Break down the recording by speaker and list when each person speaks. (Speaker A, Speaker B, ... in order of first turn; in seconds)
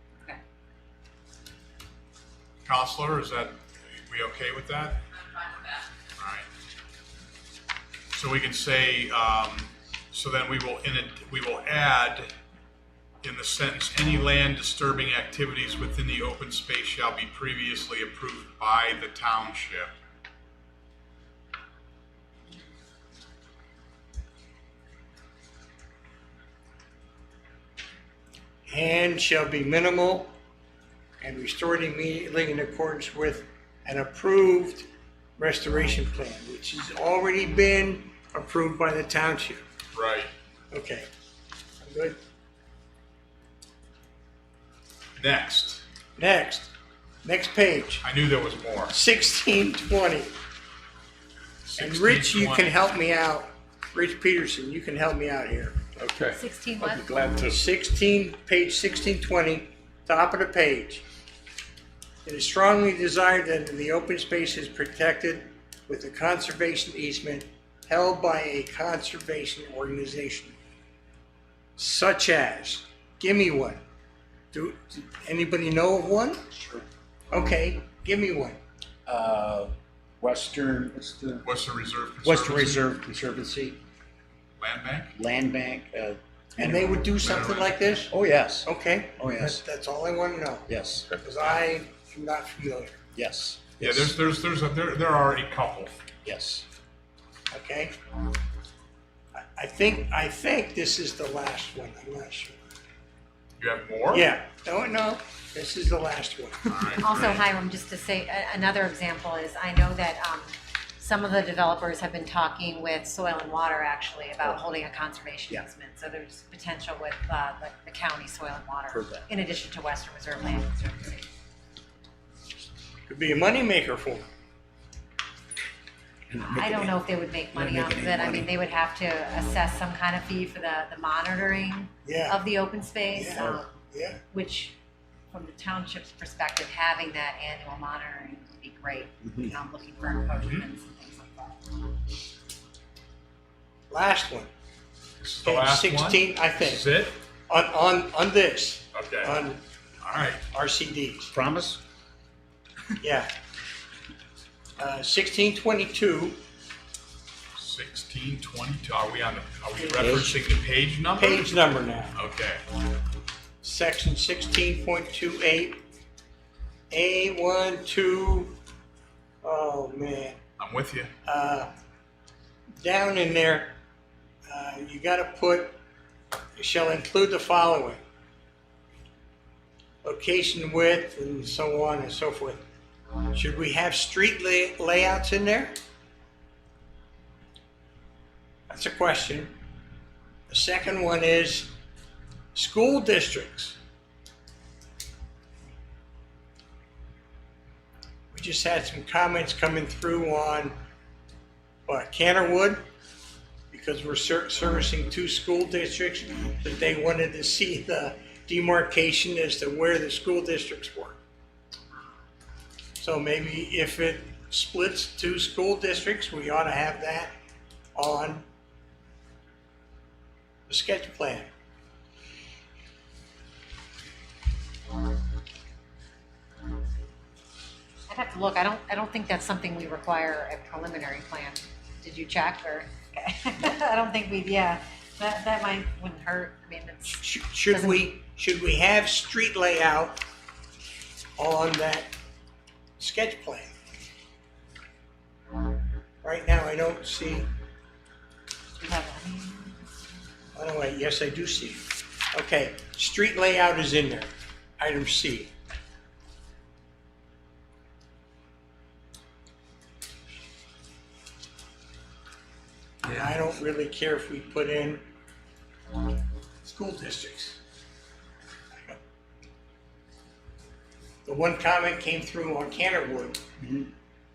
Speaker A: 2.6-5.1, 6.2-6.5, 8.1-12.3, 13.2-19.9, 39.9-40.3, 45.2-45.8, 48.0-49.0, 51.7-52.8, 56.0-57.6, 81.4-82.9, 84.6-85.1, 87.2-88.0, 91.1-91.5, 93.8-95.9, 103.6-104.3, 106.7-107.4, 140.4-140.7, 145.2-147.1, 148.9-149.3, 150.0-150.4, 157.6-161.5, 162.1-162.6, 170.6-171.1
Speaker B: 28.7-30.3, 31.2-39.6, 40.7-41.1, 41.8-42.2, 46.2-46.7, 47.2-48.0, 48.9-50.3, 51.8-55.8, 57.4-61.0, 62.2-70.5, 71.8-73.8, 74.5-76.5, 77.3-78.6, 86.6-88.1, 88.6-93.0, 97.5-97.9, 99.3-102.6, 104.1-106.7, 123.1-124.2, 132.0-132.4, 133.1-134.2, 143.9-144.5, 145.4-146.9, 147.5-149.6, 150.5-151.3, 153.0-153.3, 154.8-156.4, 159.8-160.3, 161.1-162.2, 163.6-165.8, 166.9-168.6, 169.4-170.4, 171.2-171.7, 172.8-173.8, 174.5-175.8, 176.6-178.0, 180.0-182.6, 183.3-185.8, 188.7-189.5, 190.5-191.7, 192.5-193.8, 198.3-200.8, 201.9-202.8, 203.7-211.2, 213.0-217.3, 217.9-218.4, 220.7-221.5, 237.1-240.2, 241.4-242.1, 243.0-243.8, 246.2-247.5, 250.5-255.5, 263.1-265.0, 266.6-267.6, 268.7-269.0, 271.2-273.4
Speaker C: 56.3-57.0, 107.0-121.3, 126.4-133.7, 134.3-134.8, 135.3-141.8, 228.1-238.1, 248.8-249.9
Speaker D: 76.5-76.8, 79.0-81.5, 82.2-83.8, 85.1-87.0, 88.1-89.6, 90.7-91.1, 93.1-94.2, 96.2-96.6, 118.9-119.3, 126.3-128.5, 139.2-139.6, 151.3-151.8, 160.0-160.3, 273.6-273.9